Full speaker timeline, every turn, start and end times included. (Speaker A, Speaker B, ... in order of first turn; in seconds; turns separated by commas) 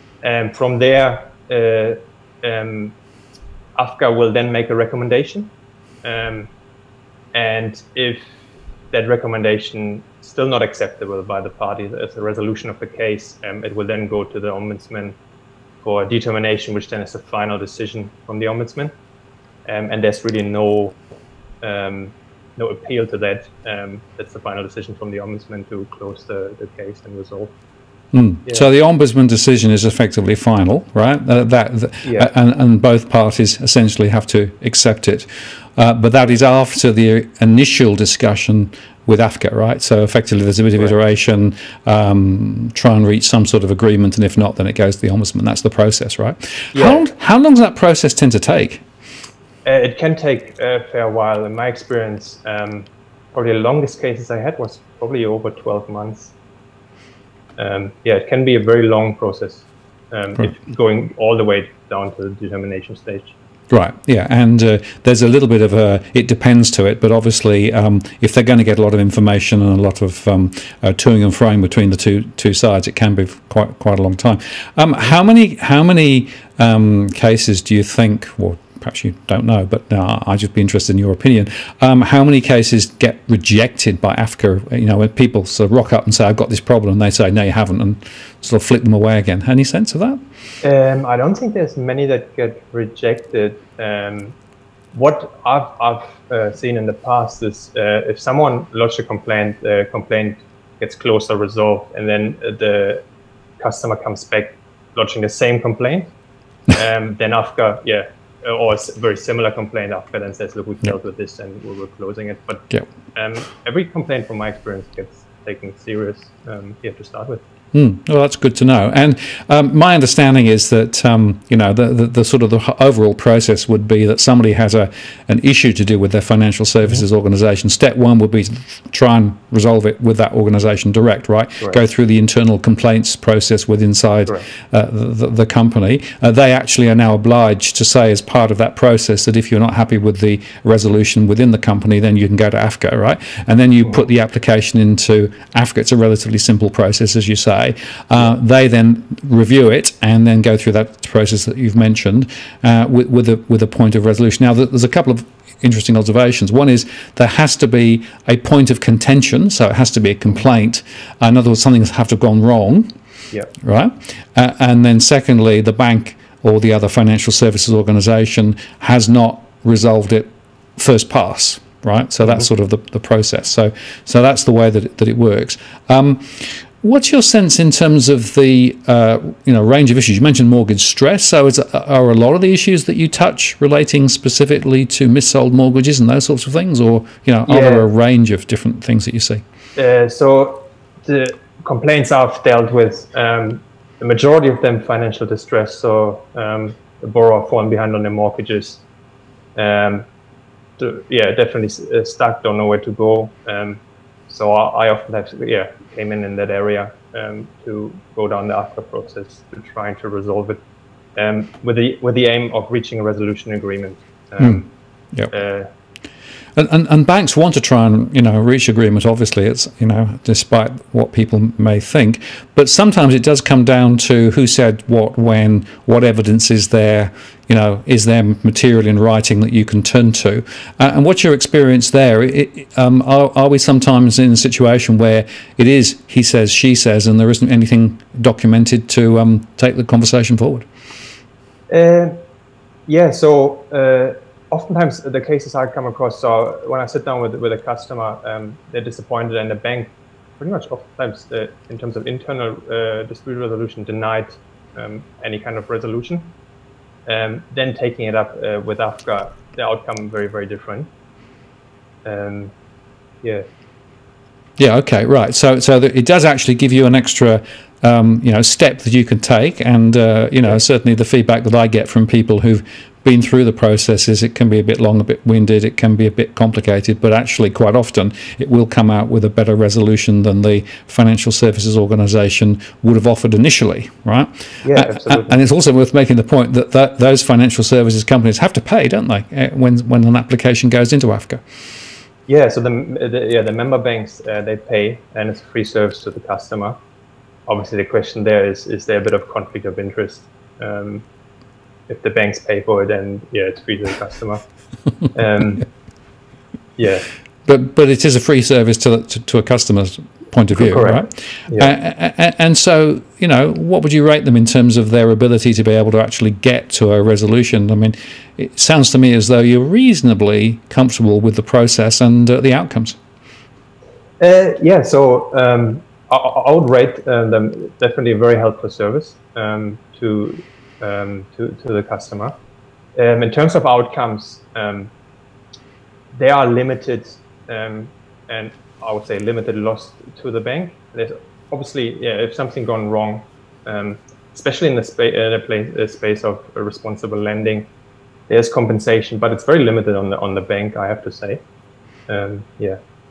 Speaker A: 0.2-3.0, Speaker A: 3.8-6.5, Speaker A: 7.3-8.2, Speaker A: 8.9-15.2, Speaker A: 15.8-18.9, Speaker A: 19.6-21.0, Speaker A: 21.6-27.5, Speaker B: 28.1-48.8, Speaker A: 32.0-32.3, Speaker A: 46.7-47.0, Speaker A: 49.6-56.3, Speaker A: 57.6-63.3, Speaker B: 63.7-90.2, Speaker A: 90.6-94.3, Speaker A: 94.9-103.0, Speaker A: 103.6-106.1, Speaker A: 106.7-117.4, Speaker B: 117.7-162.9, Speaker B: 163.6-189.4, Speaker A: 187.4-187.9, Speaker A: 189.8-198.8, Speaker A: 199.5-200.0, Speaker A: 200.8-210.6, Speaker A: 211.2-214.7, Speaker B: 214.4-215.3, Speaker A: 215.3-215.7, Speaker B: 216.6-240.7, Speaker A: 241.7-242.2, Speaker A: 242.9-256.3, Speaker A: 257.1-260.9, Speaker A: 262.0-262.5, Speaker B: 264.6-291.4, Speaker A: 284.6-285.3, Speaker A: 292.3-296.8, Speaker A: 297.5-301.0, Speaker A: 301.9-304.4, Speaker A: 305.1-305.6, Speaker A: 306.8-307.1, Speaker B: 307.4-323.0, Speaker A: 310.5-311.7, Speaker A: 324.2-332.3, Speaker A: 332.9-334.9, Speaker A: 336.1-347.7, Speaker A: 348.3-351.4, Speaker A: 352.1-352.8